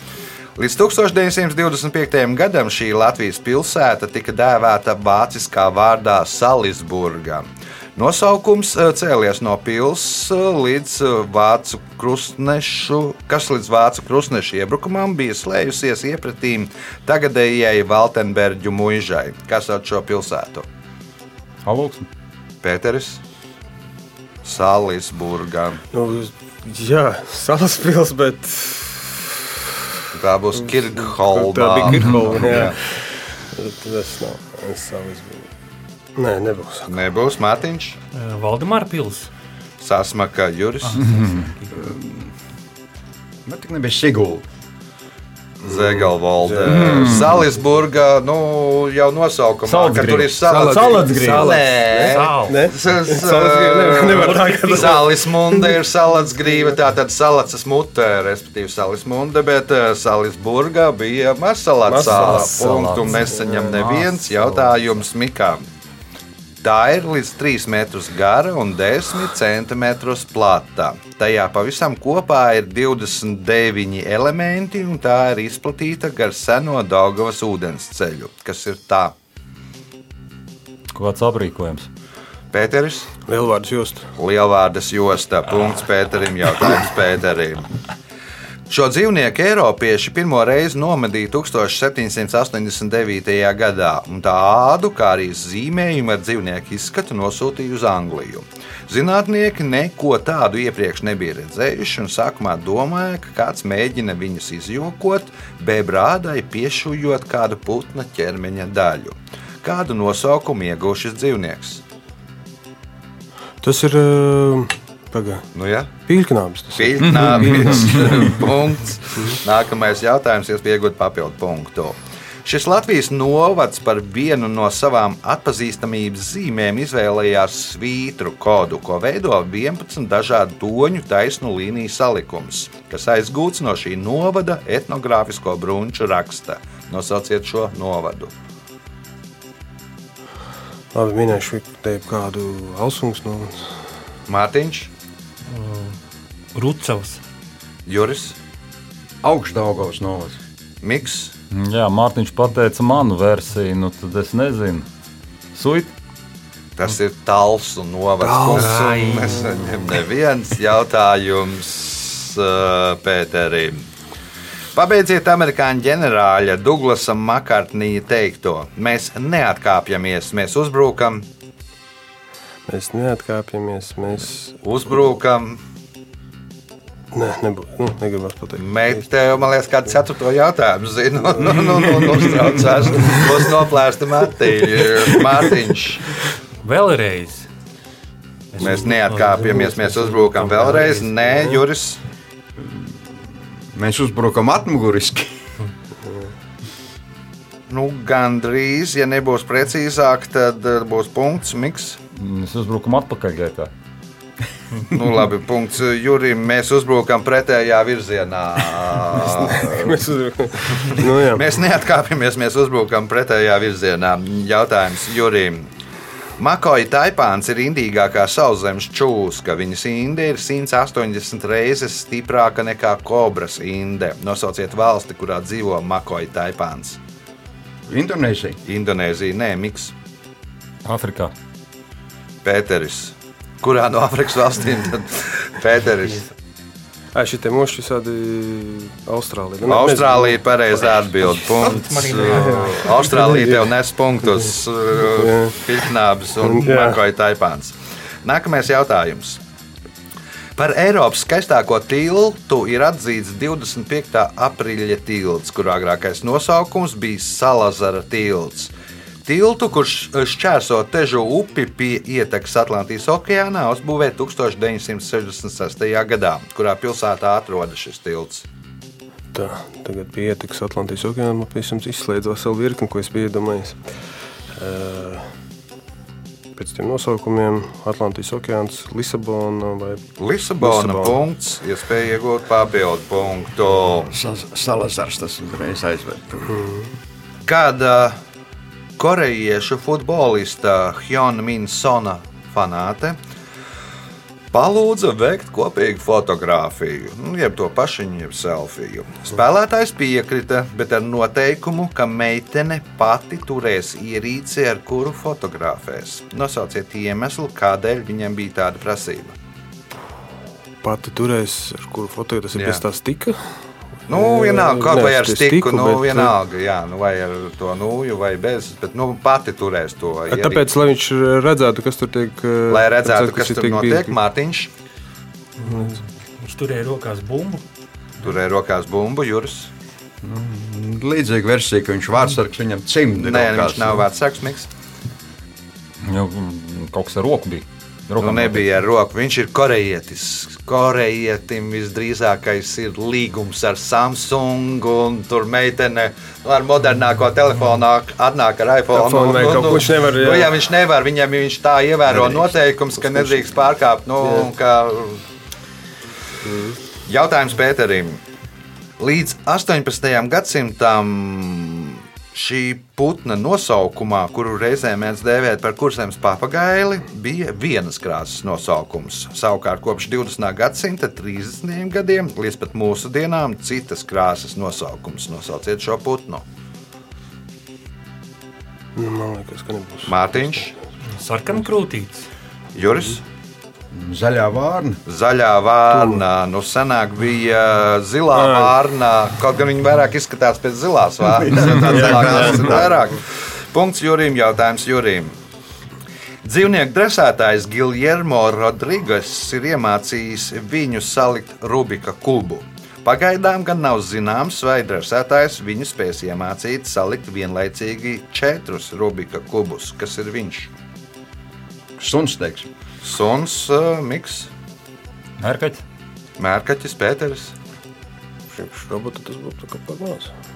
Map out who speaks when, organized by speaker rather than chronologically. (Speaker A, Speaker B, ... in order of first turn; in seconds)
Speaker A: 0.6-20.7, 22.6-23.2, 24.4-25.8, 30.1-32.8, 36.9-38.0, 39.8-41.2, 45.6-65.7, 66.6-79.1, 82.5-83.1, 84.2-87.7, 88.7-111.8, 115.5-115.9, 116.7-138.3, 144.3-144.9, 147.9-148.4, 150.8-151.3, 156.8-163.8, 164.7-171.2, 174.6-175.6, 178.6-186.2, 188.6-192.0, 197.7-202.0, 204.9-209.9, 210.9-215.7, 216.4-227.0, 228.7-229.9, 232.4-236.2, 239.7-249.4, 250.6-258.7, 259.2-268.4, 280.2-284.1, 287.4-288.2, 289.0-293.2, 294.5-309.4, 312.5-312.8, 314.1-320.7, 322.7-324.7, 328.2-329.7, 333.2-334.7, 338.2-355.2, 357.1-358.2, 359.0-376.4, 380.1-380.7, 382.7-383.2, 385.1-395.4, 396.4-410.7, 413.0-414.5, 416.4-417.5
Speaker B: 21.6-22.1, 46.6-47.4, 49.6-51.6, 62.0-64.7, 80.9-81.9, 151.5-154.8, 155.5-155.9, 202.1-203.7, 230.8-231.3, 336.0-338.7, 415.4-415.8
Speaker C: 25.9-29.3, 30.6-35.5, 36.1-37.0, 45.7-47.1, 50.4-55.8, 61.9-63.8, 83.2-84.1, 113.6-115.5, 116.0-118.4, 140.9-143.9, 158.3-159.3, 172.7-174.6, 177.1-179.0, 189.4-191.5, 196.0-196.3, 209.2-211.4, 237.1-240.4, 241.6-243.7, 245.0-245.6, 246.4-247.0, 269.3-275.3, 276.6-280.0, 280.6-281.2, 286.5-286.9, 310.8-316.3, 320.3-324.1, 325.6-326.0, 348.9-350.6, 352.1-353.5, 354.2-354.5, 356.4-356.8, 378.9-380.6, 385.9-386.2, 388.3-388.7, 391.6-393.1, 418.5-420.3
Speaker D: 38.1-39.3, 40.9-41.7, 52.0-52.7, 145.5-146.0, 146.5-147.2, 158.5-159.4, 186.6-187.5, 188.5-189.4, 325.6-327.6, 381.1-382.2
Speaker E: 41.7-42.3, 43.4-44.5, 149.2-150.4, 192.6-192.9, 193.7-195.3, 227.9-228.6, 284.1-286.6, 330.2-334.1, 383.9-385.0, 391.3-392.9, 412.0-412.7